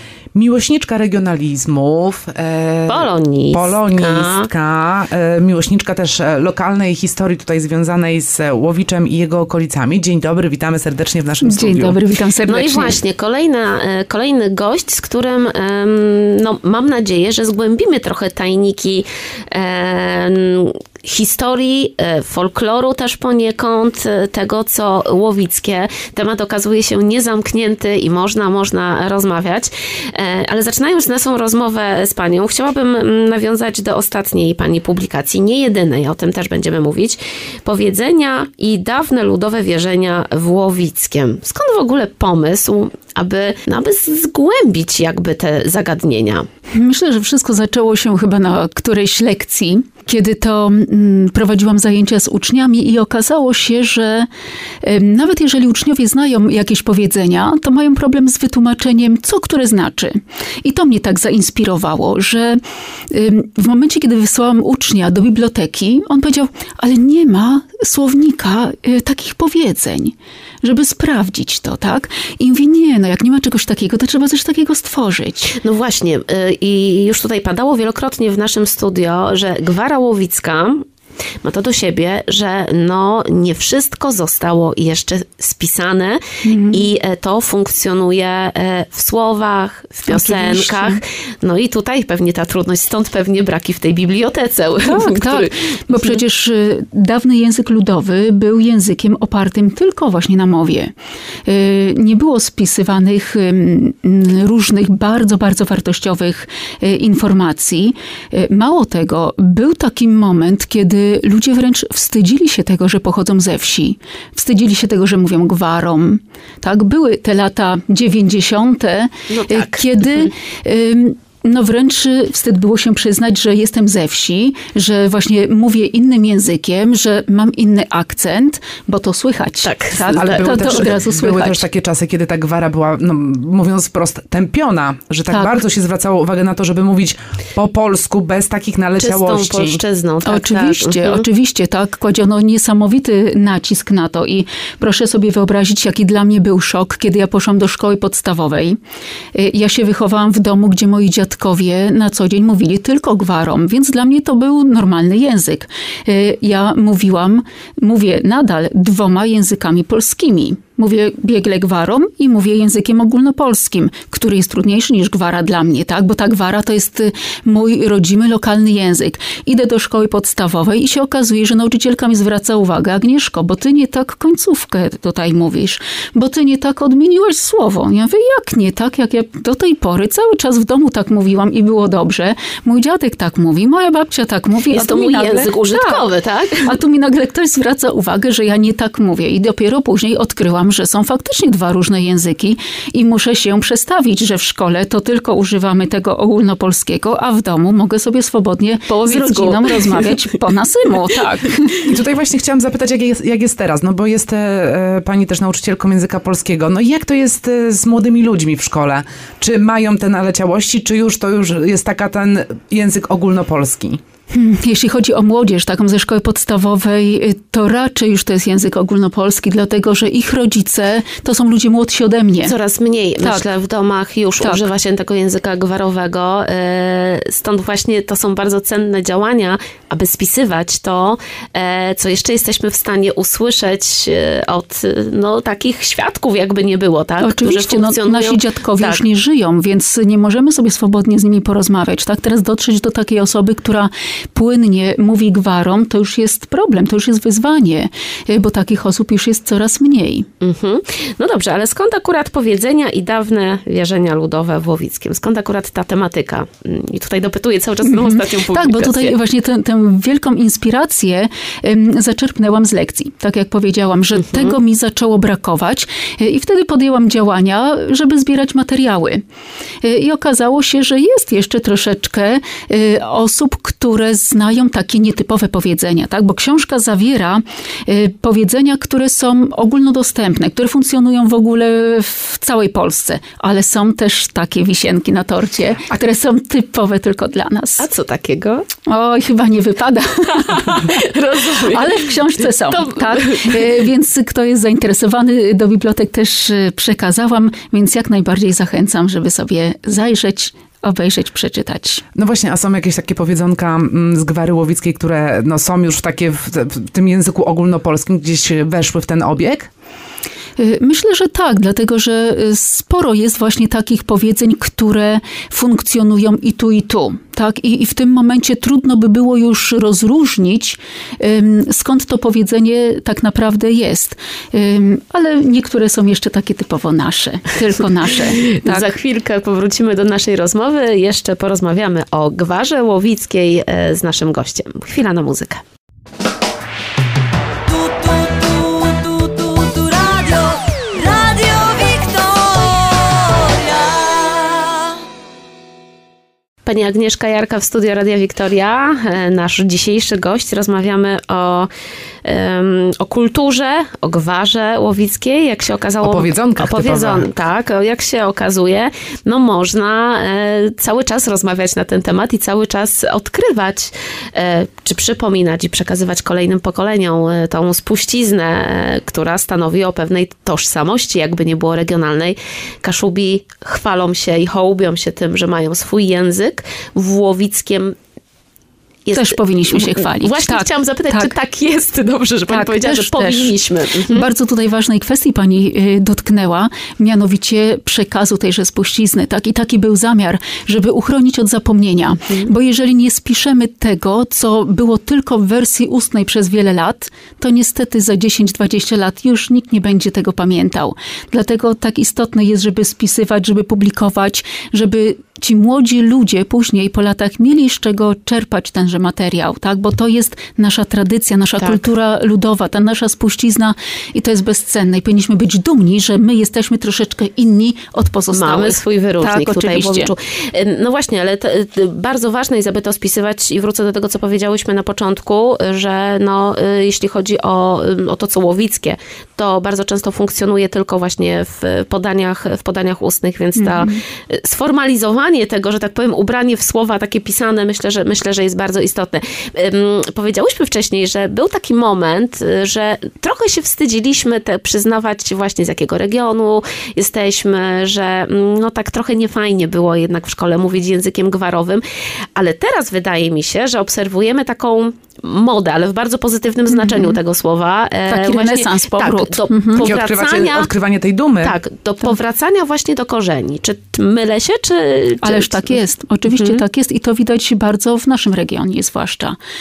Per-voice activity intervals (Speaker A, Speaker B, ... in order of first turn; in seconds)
Speaker A: 0.3-12.0, 130.0-139.8, 201.8-214.0, 302.1-309.7, 356.0-357.3, 459.8-461.6
Speaker B: 2.9-4.5, 12.4-46.5, 75.5-80.8, 81.4-96.2, 119.3-120.3, 129.6-130.9, 139.0-141.2, 184.7-186.8, 198.9-200.3, 222.4-239.0, 250.4-259.1, 264.2-264.5, 287.8-288.7, 290.4-293.7, 328.2-335.6, 338.0-344.2, 346.6-351.7, 352.2-377.9, 379.1-384.3, 418.3-451.8, 452.4-460.7, 461.4-466.6
Speaker C: 11.4-13.0, 46.7-54.3, 54.8-75.5, 86.4-86.9, 90.1-91.0, 94.8-100.9, 101.5-131.7, 135.3-135.6, 140.2-148.8, 149.3-186.1, 186.6-201.8, 214.3-222.5, 223.2-223.4, 224.4-224.7, 237.2-250.3, 257.8-269.2, 269.8-287.9, 288.9-291.0, 291.7-302.0, 310.6-329.0, 379.1-381.3, 382.5-383.6, 384.1-420.1, 433.6-434.0, 456.7-457.2, 458.1-459.9, 465.2-469.4